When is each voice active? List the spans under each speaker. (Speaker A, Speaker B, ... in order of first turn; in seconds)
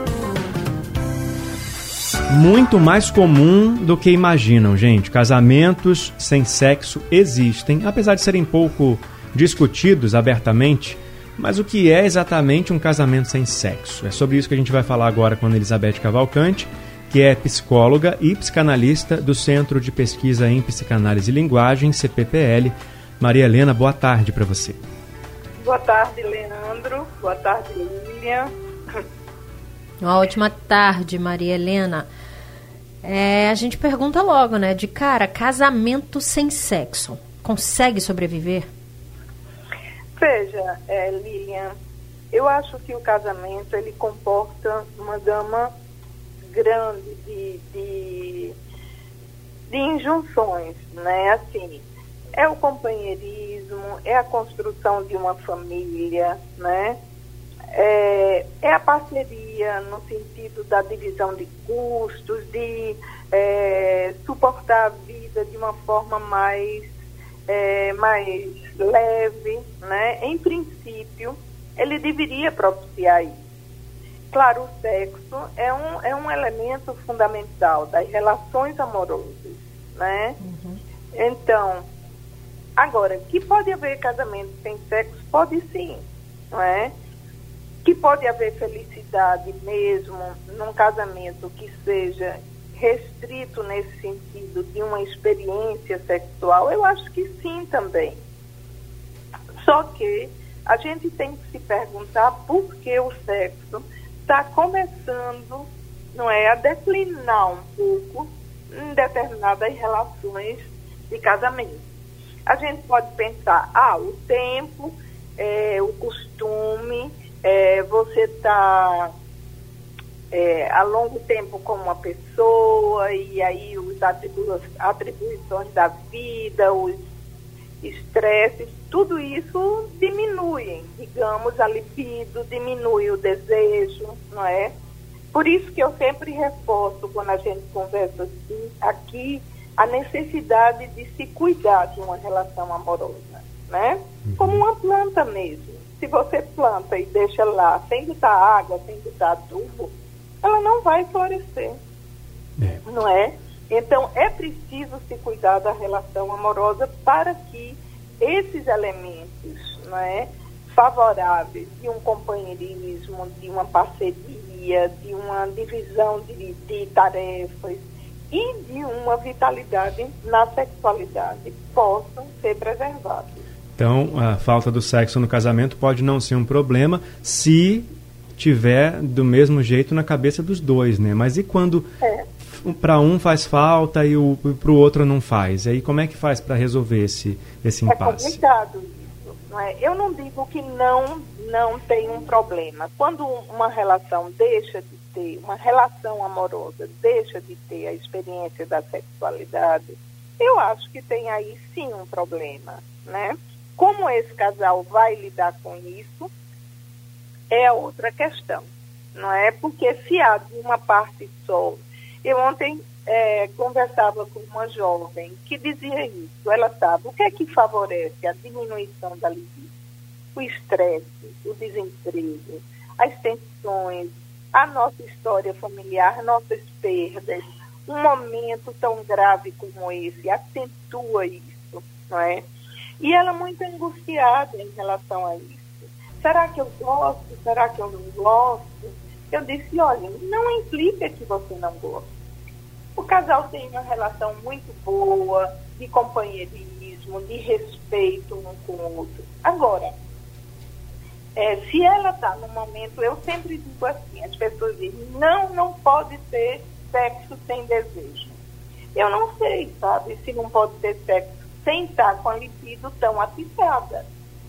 Speaker A: 2.3-24.8, 144.2-144.6, 173.8-181.8, 182.5-188.4
Speaker B: 25.6-28.5, 40.1-41.8, 42.3-45.7, 46.5-48.5, 49.7-57.0, 57.7-66.9, 67.5-73.4, 74.3-80.4, 81.1-81.8, 82.8-86.9, 87.8-98.2, 99.6-111.8, 112.5-119.1, 120.3-127.0, 127.8-134.7, 135.3-151.8, 152.8-173.5, 187.9-206.3, 207.5-219.7, 220.3-232.5, 233.0-242.1, 242.9-249.9, 251.3-258.4, 258.9-264.1
Speaker C: 30.0-32.1, 33.0-38.7, 80.4-80.8